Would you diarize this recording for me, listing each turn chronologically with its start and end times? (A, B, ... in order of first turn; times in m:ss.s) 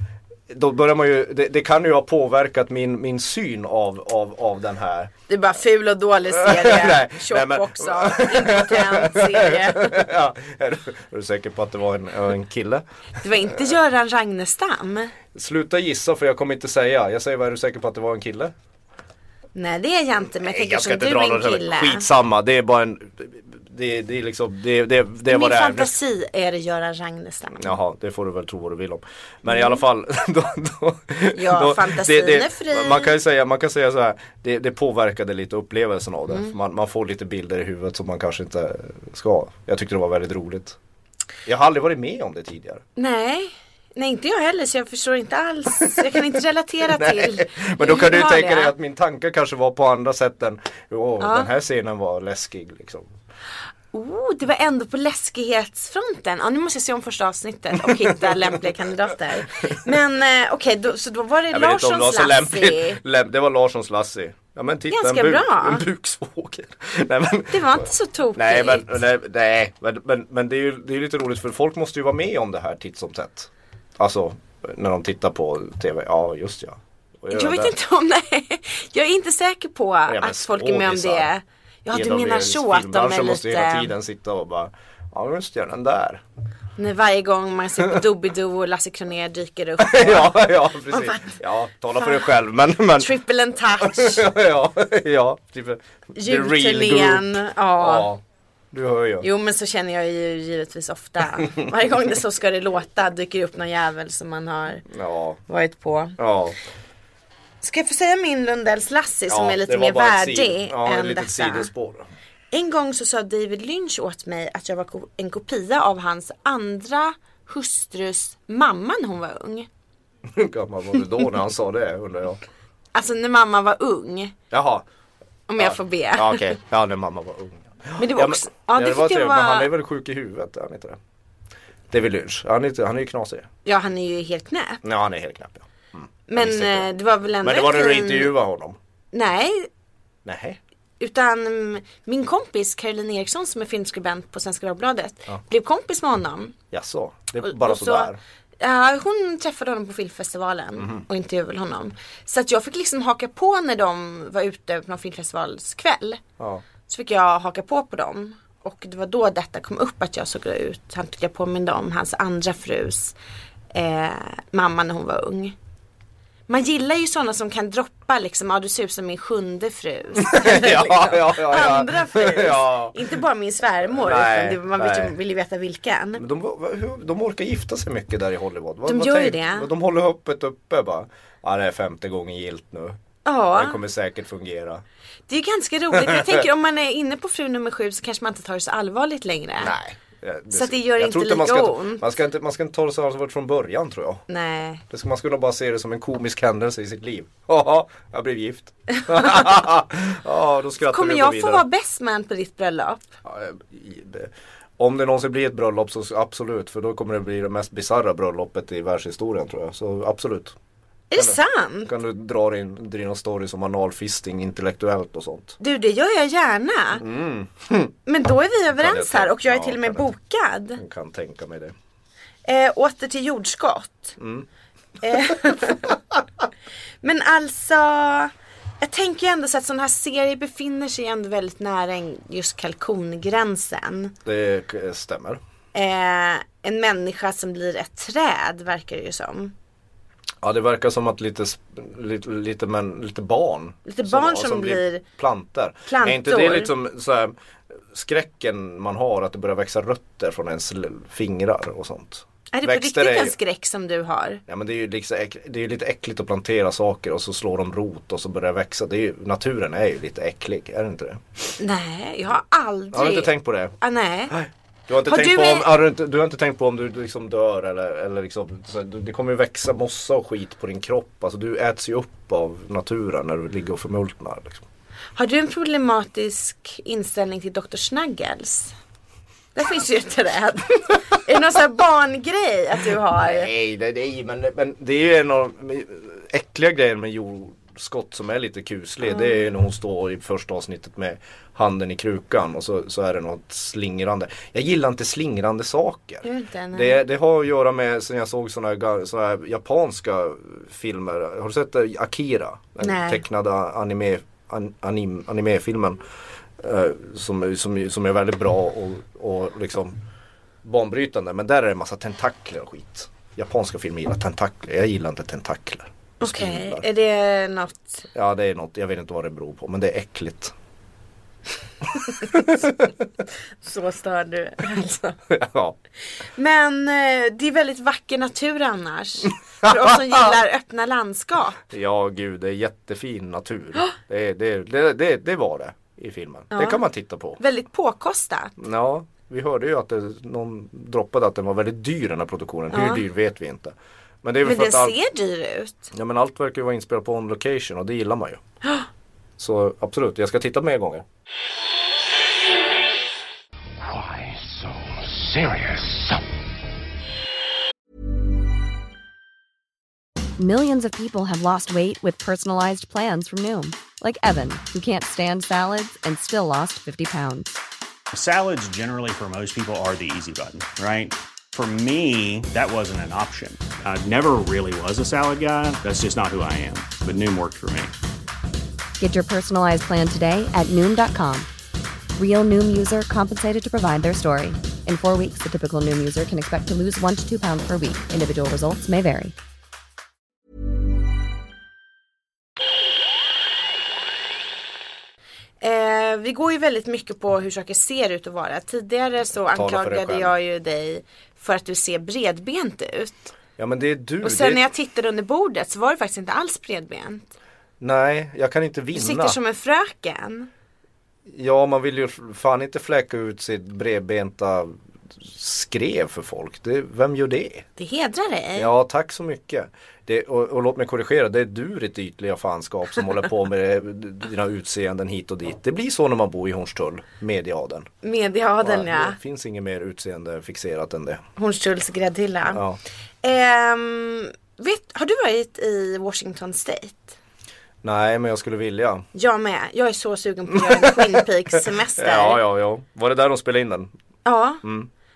0:00.5-0:05.1 A
0:05.3-0:10.0 B
0:06.3-0:12.8 A
0:13.2-0:15.1 B
0:15.3-0:18.5 A
0:19.6-0:22.1 B
0:20.4-0:25.9 A
0:25.3-0:27.8 B
0:27.6-0:40.8 A
0:29.5-0:29.8 B
0:31.3-0:33.2 B
0:41.5-0:42.8 A
0:43.0-0:48.7 B
0:46.9-0:53.1 A
0:51.2-0:51.5 B
0:53.9-1:03.0 B
0:57.8-0:58.6 A
1:01.5-1:17.7 A
1:04.9-1:05.8 B
1:07.5-1:09.0 B
1:17.3-1:23.9 B
1:20.1-1:21.3 A
1:21.9-1:26.2 A
1:26.8-1:31.4 B
1:29.8-1:33.2 A
1:33.0-1:34.3 B
1:33.7-1:38.2 A
1:36.2-1:38.1 B
1:38.7-1:39.3 A
1:39.2-1:44.9 B
1:44.9-1:45.4 A
1:45.5-1:46.2 B
1:46.2-1:46.6 A
1:47.6-1:51.7 B
1:49.3-1:52.1 A
1:52.5-1:59.7 B
2:00.3-2:02.4 A
2:02.9-2:04.4 B
2:04.5-2:04.9 A
2:05.5-2:06.6 B
2:05.6-2:11.0 A
2:08.0-2:09.7 B
2:11.9-2:13.5 A
2:13.6-2:14.8 B
2:14.8-2:16.9 A
2:16.3-2:18.4 B
2:17.4-2:18.8 A
2:19.1-2:19.7 B
2:20.2-2:20.6 A
2:21.0-2:26.6 B
2:26.7-2:28.2 A
2:27.4-2:36.2 B
2:30.8-2:31.0 A
2:36.9-2:43.2 B
2:43.7-2:45.6 B
2:46.5-2:56.2 B
2:50.2-2:53.0 A
2:53.9-2:55.2 A
2:56.2-3:03.0 A
2:58.9-2:59.7 B
3:03.2-3:03.8 B
3:03.5-3:04.8 A
3:05.3-3:09.8 B
3:05.9-3:06.5 A
3:09.6-3:14.2 A
3:10.5-3:12.0 B
3:14.3-3:14.8 B
3:14.9-3:21.6 A
3:20.9-3:23.1 B
3:23.2-3:30.6 A
3:31.1-3:31.9 B
3:31.2-3:35.6 A
3:35.6-3:37.0 B
3:37.0-3:37.9 A
3:38.1-3:40.8 B
3:38.7-3:40.1 A
3:40.8-3:41.8 A
3:42.4-3:44.2 B
3:44.2-3:44.5 A
3:45.0-3:45.9 B
3:45.7-3:45.9 A
3:47.0-3:54.1 B
3:54.2-3:55.4 A
3:55.7-3:59.5 B
4:00.4-4:07.4 A
4:03.9-4:05.0 B
4:05.9-4:06.7 B
4:07.9-4:13.4 A
4:12.5-4:14.4 B
4:14.5-4:21.5 A
4:21.6-4:24.4 B
4:22.9-4:23.7 A
4:24.3-4:34.6 A
4:25.0-4:25.7 B
4:35.2-4:38.8 B
4:39.6-4:43.5 B
4:43.2-5:06.0 A
4:56.2-4:57.0 B
5:02.8-5:03.2 B
5:06.6-5:10.0 A
5:10.6-5:16.8 A
5:16.2-5:18.0 B
5:18.1-5:20.6 A
5:22.0-5:22.9 A
5:23.6-5:25.2 B
5:25.3-5:25.8 A
5:26.2-5:31.6 B
5:29.6-5:30.4 A
5:31.7-5:37.4 A
5:36.5-5:36.8 B
5:37.4-5:38.6 B
5:38.6-5:45.0 A
5:42.7-5:43.0 B
5:44.4-5:45.9 B
5:45.9-5:48.4 A
5:49.4-5:51.0 A
5:53.8-5:56.4 C
6:00.4-6:07.6 D
6:08.1-6:17.9 E
6:19.0-6:21.5 D
6:22.2-6:29.3 D
6:35.6-6:43.3 B
6:39.5-6:40.3 A
6:43.6-6:44.7 A
6:44.2-6:47.3 B
6:47.8-6:49.4 A
6:48.9-6:50.5 B
6:51.3-6:57.7 A
6:57.8-6:58.7 B
6:58.6-7:07.9 A
7:08.0-7:09.2 B
7:08.6-7:11.2 A
7:11.4-7:12.6 B
7:12.5-7:12.8 A
7:13.2-7:17.2 B
7:17.8-7:19.1 A
7:19.1-7:22.4 B
7:20.5-7:21.2 A
7:22.0-7:23.9 A
7:24.2-7:24.6 B
7:24.6-7:24.9 A